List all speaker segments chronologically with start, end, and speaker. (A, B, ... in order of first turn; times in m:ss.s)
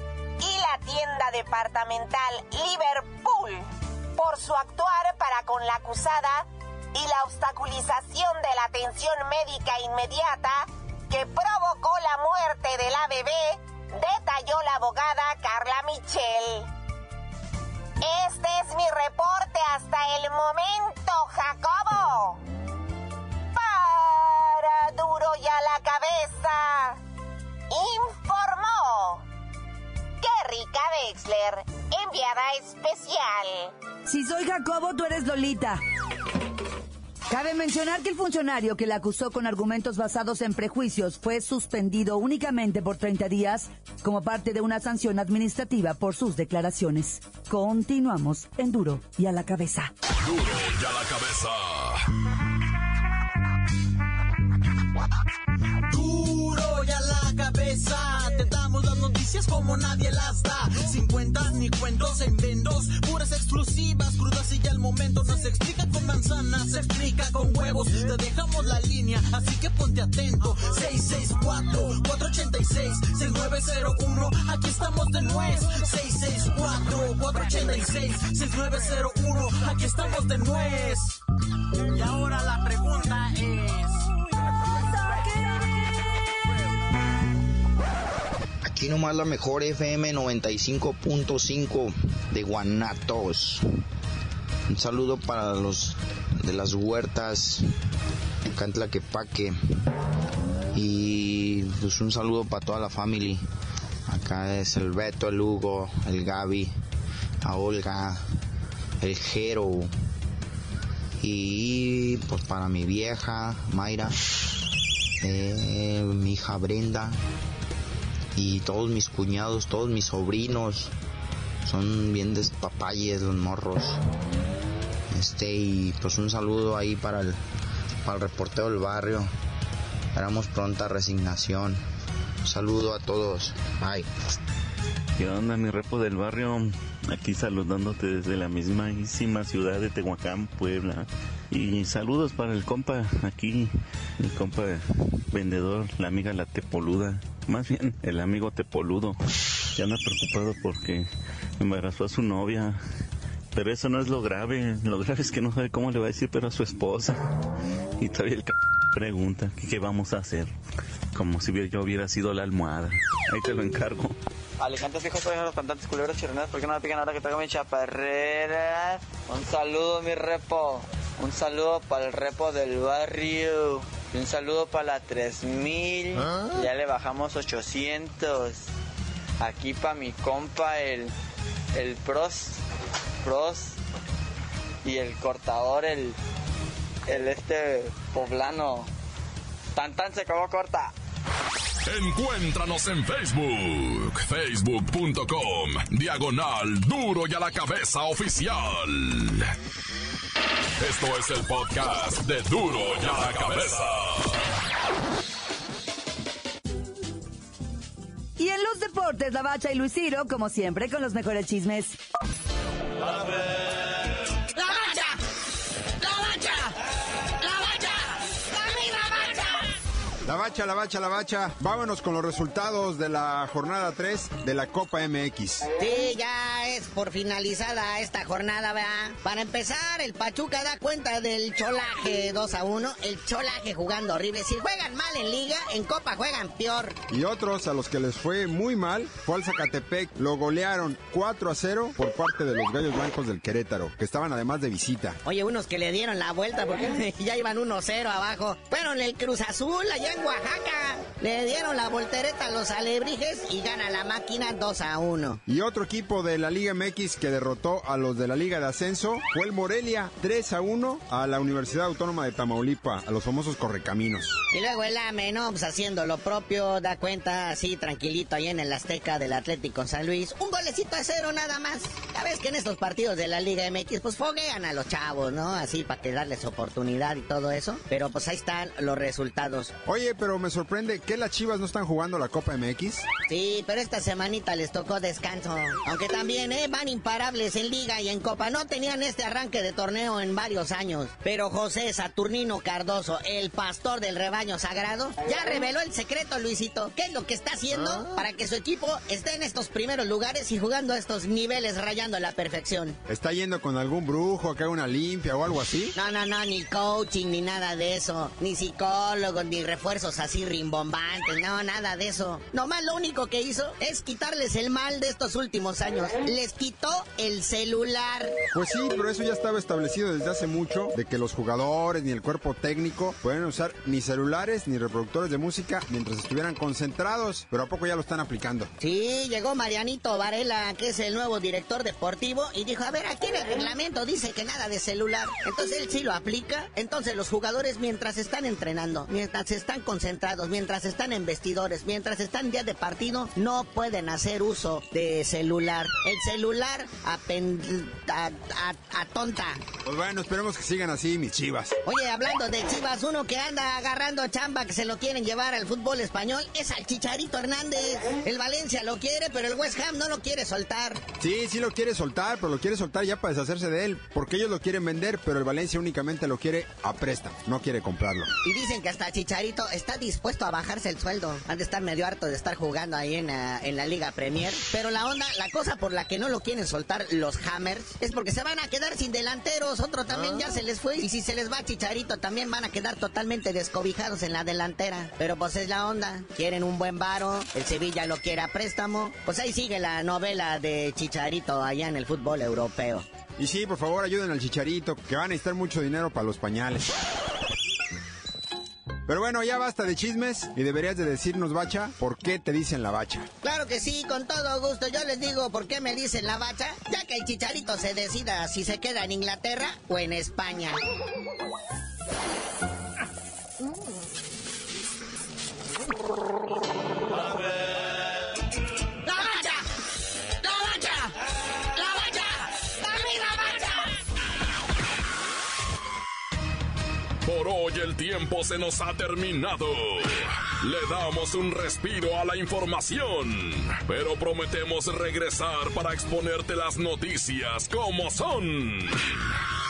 0:00.4-0:16.7 A
0:18.0-0:22.4 A
0:23.5-0:27.0 A
0:27.7-0:29.2 A
0:30.2-0:33.7 A
0:34.0-0:35.8 B
0:37.3-0:49.9 B
0:50.2-0:52.1 C
0:55.9-1:21.2 D
1:21.9-1:24.1 D
1:28.6-1:33.6 E
1:34.7-1:37.6 E
1:38.5-1:39.6 E
1:40.7-1:43.4 E
1:44.1-1:46.7 E
1:47.4-1:48.2 E
1:49.0-1:49.9 E
1:51.2-1:54.1 E
1:55.2-1:57.2 E
1:58.4-2:00.9 E
2:01.6-2:04.0 E
2:05.1-2:07.4 E
2:08.0-2:09.3 E
2:10.1-2:11.8 E
2:12.4-2:14.1 E
2:15.2-2:29.2 F
2:29.8-2:31.1 F
2:31.6-2:32.8 F
2:33.5-2:37.2 F
2:38.0-2:40.5 F
2:41.1-2:44.2 F
2:44.6-2:58.6 G
2:59.4-3:01.1 G
3:01.7-3:02.6 G
3:03.2-3:03.8 G
3:04.8-3:06.2 G
3:07.1-3:08.9 G
3:09.7-3:10.9 G
3:11.8-3:19.5 C
3:20.8-3:24.4 C
3:28.4-3:32.0 B
3:34.5-3:35.2 H
3:36.0-3:36.7 H
3:37.4-3:39.6 H
3:40.2-3:45.7 I
3:45.8-3:57.0 H
3:57.1-4:05.2 I
4:05.2-4:15.4 H
4:15.4-4:24.4 I
4:24.5-4:39.7 H
4:39.8-4:43.1 I
4:43.3-5:03.0 H
5:03.1-5:05.9 I
5:05.9-5:18.4 H
5:18.5-5:28.7 I
5:28.8-5:49.6 H
5:49.8-5:51.8 I
5:51.8-6:01.0 H
6:01.2-6:08.3 I
6:08.4-6:33.0 H
6:33.4-6:36.9 I
6:39.1-6:43.3 I
6:43.4-6:50.8 H
6:59.0-6:59.6 H
7:00.4-7:01.1 H
7:01.8-7:03.8 H
7:07.2-7:19.4 C